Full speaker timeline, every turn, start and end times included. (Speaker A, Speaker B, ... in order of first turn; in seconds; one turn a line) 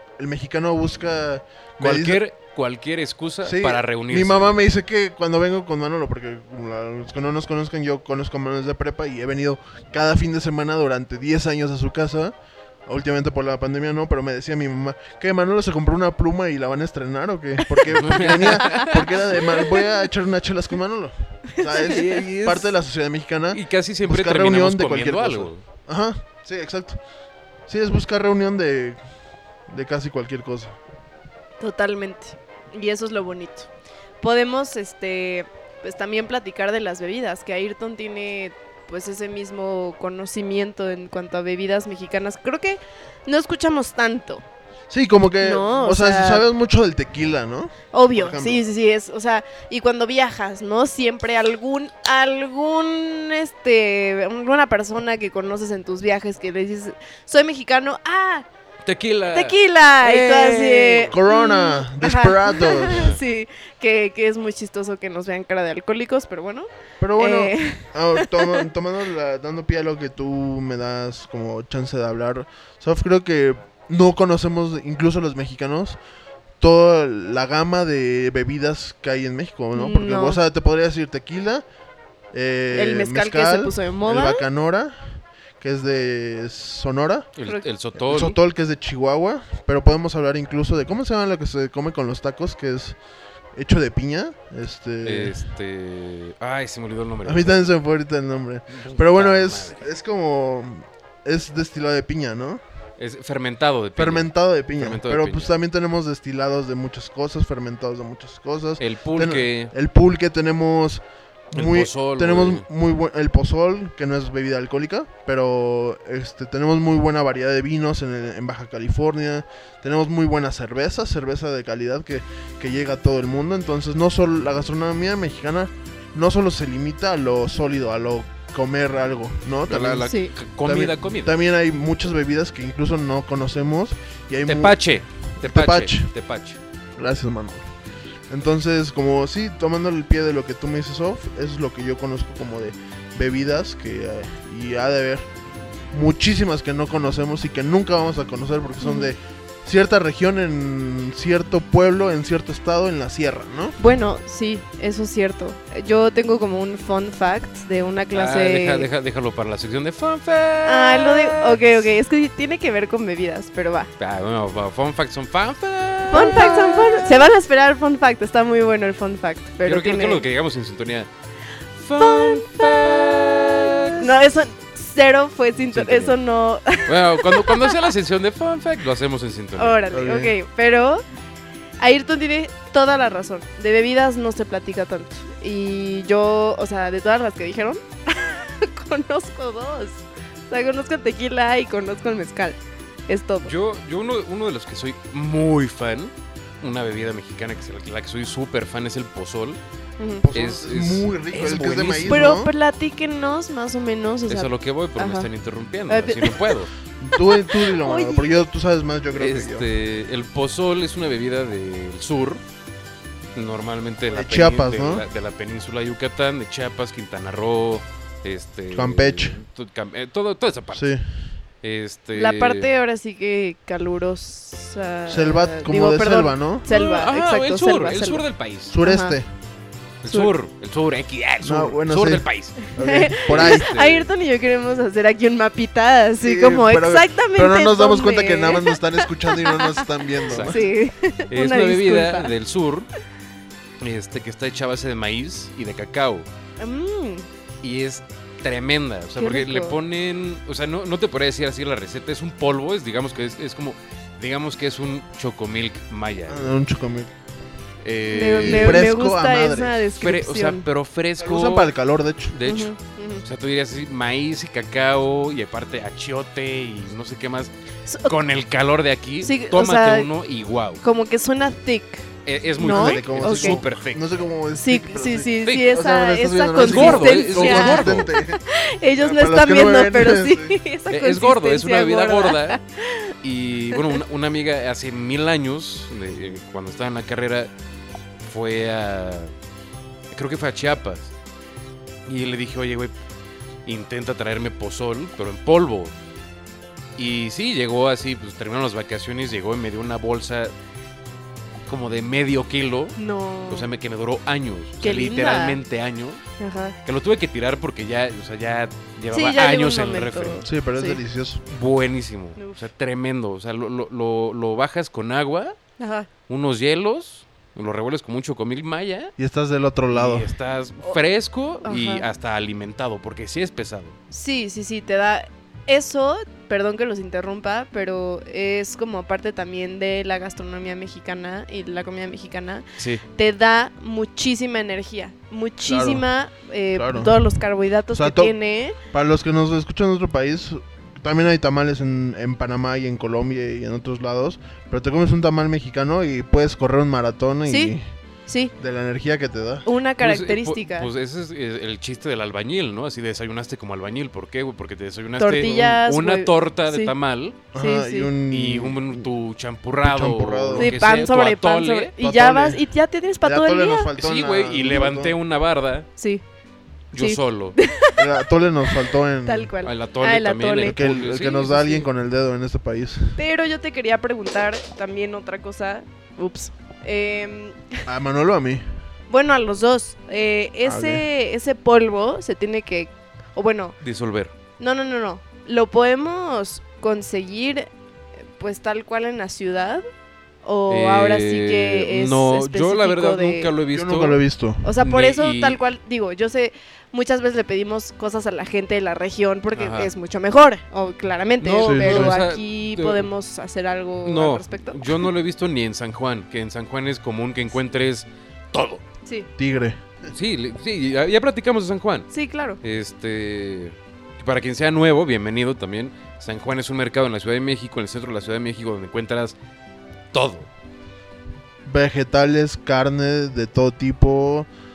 Speaker A: 0.2-2.2
Speaker B: 1.8-4.6
Speaker A: 3.4-12.3
Speaker A: 12.8-27.0
Speaker B: 17.9-19.1
Speaker C: 18.4-18.9
Speaker C: 19.5-19.8
Speaker C: 21.5-22.2
Speaker B: 21.9-22.6
Speaker B: 23.5-25.6
Speaker A: 27.7-29.0
Speaker A: 29.7-30.8
Speaker C: 31.6-33.7
Speaker C: 34.2-44.4
Speaker A: 44.9-48.6
Speaker C: 45.4-46.4
Speaker C: 47.9-58.5
Speaker B: 58.8-61.1
Speaker C: 59.3-68.6
Speaker A: 61.1-63.2
Speaker B: 62.8-63.2
Speaker A: 67.0-76.0
Speaker A: 76.6-81.6
Speaker C: 79.7-80.4
Speaker A: 82.3-87.3
Speaker C: 82.7-84.4
Speaker B: 87.3-88.4
Speaker A: 88.0-93.0
Speaker A: 93.5-95.4
Speaker B: 95.0-97.7
Speaker A: 97.2-102.6
Speaker B: 98.7-99.8
Speaker B: 103.0-105.5
Speaker A: 104.0-130.1
Speaker B: 108.8-109.7
Speaker B: 111.5-112.7
Speaker B: 129.7-131.4
Speaker C: 130.0-130.3
Speaker A: 130.6-134.8
Speaker B: 134.4-136.6
Speaker A: 135.4-136.1
Speaker A: 137.0-137.6
Speaker A: 138.3-145.2
Speaker A: 145.9-153.8
Speaker C: 148.8-149.1
Speaker C: 153.8-158.9
Speaker B: 158.1-161.8
Speaker C: 160.6-163.9
Speaker B: 164.0-167.2
Speaker C: 166.1-170.2
Speaker B: 169.6-171.1
Speaker B: 171.8-174.1
Speaker C: 172.0-173.4
Speaker C: 174.0-177.8
Speaker B: 175.7-176.2
Speaker B: 176.9-179.8
Speaker C: 179.6-181.0
Speaker A: 179.9-180.3
Speaker C: 181.8-193.5
Speaker B: 193.4-199.6
Speaker C: 200.0-200.2
Speaker A: 200.2-202.5
Speaker B: 200.3-202.4
Speaker C: 202.1-205.3
Speaker B: 204.3-206.7
Speaker C: 205.9-206.6
Speaker A: 207.0-209.7
Speaker C: 207.2-208.4
Speaker B: 209.2-212.4
Speaker B: 213.3-220.9
Speaker A: 214.1-215.0
Speaker A: 218.7-219.4
Speaker A: 220.7-221.0
Speaker B: 221.6-222.7
Speaker C: 222.1-228.2
Speaker A: 225.1-226.7
Speaker B: 226.7-228.7
Speaker A: 228.7-229.2
Speaker C: 228.8-229.2
Speaker B: 230.0-232.7
Speaker C: 230.1-230.3
Speaker A: 231.4-233.7
Speaker C: 232.8-242.3
Speaker B: 233.2-234.1
Speaker A: 236.2-240.6
Speaker B: 240.3-240.6
Speaker B: 241.3-242.9
Speaker B: 243.8-246.3
Speaker C: 246.6-247.3
Speaker B: 247.6-256.5
Speaker C: 249.2-249.8
Speaker A: 256.3-257.1
Speaker B: 257.8-258.9
Speaker C: 258.1-260.6
Speaker A: 258.4-259.9
Speaker B: 260.0-261.7
Speaker A: 261.2-262.4
Speaker B: 262.3-267.5
Speaker C: 262.4-263.2
Speaker C: 267.9-268.1
Speaker B: 268.0-270.8
Speaker C: 269.2-270.1
Speaker C: 270.8-273.6
Speaker B: 272.2-274.0
Speaker A: 272.6-278.4
Speaker C: 274.6-283.1
Speaker B: 276.6-278.1
Speaker A: 279.0-280.6
Speaker B: 280.9-282.6
Speaker B: 283.2-287.5
Speaker C: 283.7-284.0
Speaker B: 288.2-289.3
Speaker B: 290.1-291.1
Speaker B: 292.1-292.9
Speaker B: 293.6-295.9
Speaker B: 297.0-300.5
Speaker B: 301.7-303.0
Speaker C: 303.0-303.7
Speaker B: 303.5-306.2
Speaker C: 304.8-305.6
Speaker C: 306.4-306.7
Speaker B: 306.8-310.4
Speaker C: 309.1-311.0
Speaker A: 310.4-311.4
Speaker B: 311.5-315.6
Speaker C: 315.8-316.1
Speaker B: 316.3-319.1
Speaker A: 319.2-320.3
Speaker B: 319.9-323.9
Speaker C: 321.6-322.1
Speaker C: 324.1-338.8
Speaker B: 332.8-333.0
Speaker A: 335.6-336.0
Speaker A: 336.7-337.2
Speaker A: 337.9-338.3
Speaker A: 338.9-347.8
Speaker C: 347.5-347.7
Speaker C: 348.3-348.5
Speaker A: 348.6-349.6
Speaker C: 349.6-350.9
Speaker B: 350.0-357.4
Speaker C: 355.2-356.9
Speaker A: 357.5-359.1
Speaker C: 357.5-358.1
Speaker B: 358.3-361.9
Speaker A: 359.8-360.8
Speaker C: 360.6-363.9
Speaker A: 362.0-362.6
Speaker A: 363.2-365.1
Speaker B: 364.0-365.9
Speaker C: 366.0-366.2
Speaker B: 366.9-367.6
Speaker C: 366.9-368.1
Speaker A: 368.0-369.5
Speaker C: 368.6-370.8
Speaker B: 369.6-371.9
Speaker A: 370.6-373.2
Speaker C: 373.1-377.9
Speaker A: 377.9-378.6
Speaker C: 379.1-383.8
Speaker A: 380.6-381.1
Speaker B: 383.8-384.3
Speaker C: 384.6-387.7
Speaker C: 388.4-389.9
Speaker C: 390.4-393.5
Speaker B: 390.7-394.2
Speaker A: 393.7-394.6
Speaker C: 394.6-405.1
Speaker B: 394.8-395.6
Speaker B: 399.5-399.9
Speaker B: 401.4-403.1
Speaker A: 401.6-402.2
Speaker B: 404.0-408.8
Speaker A: 409.4-409.8
Speaker B: 410.1-412.1
Speaker C: 412.1-412.6
Speaker B: 412.6-419.3
Speaker B: 420.1-420.5
Speaker A: 421.6-424.5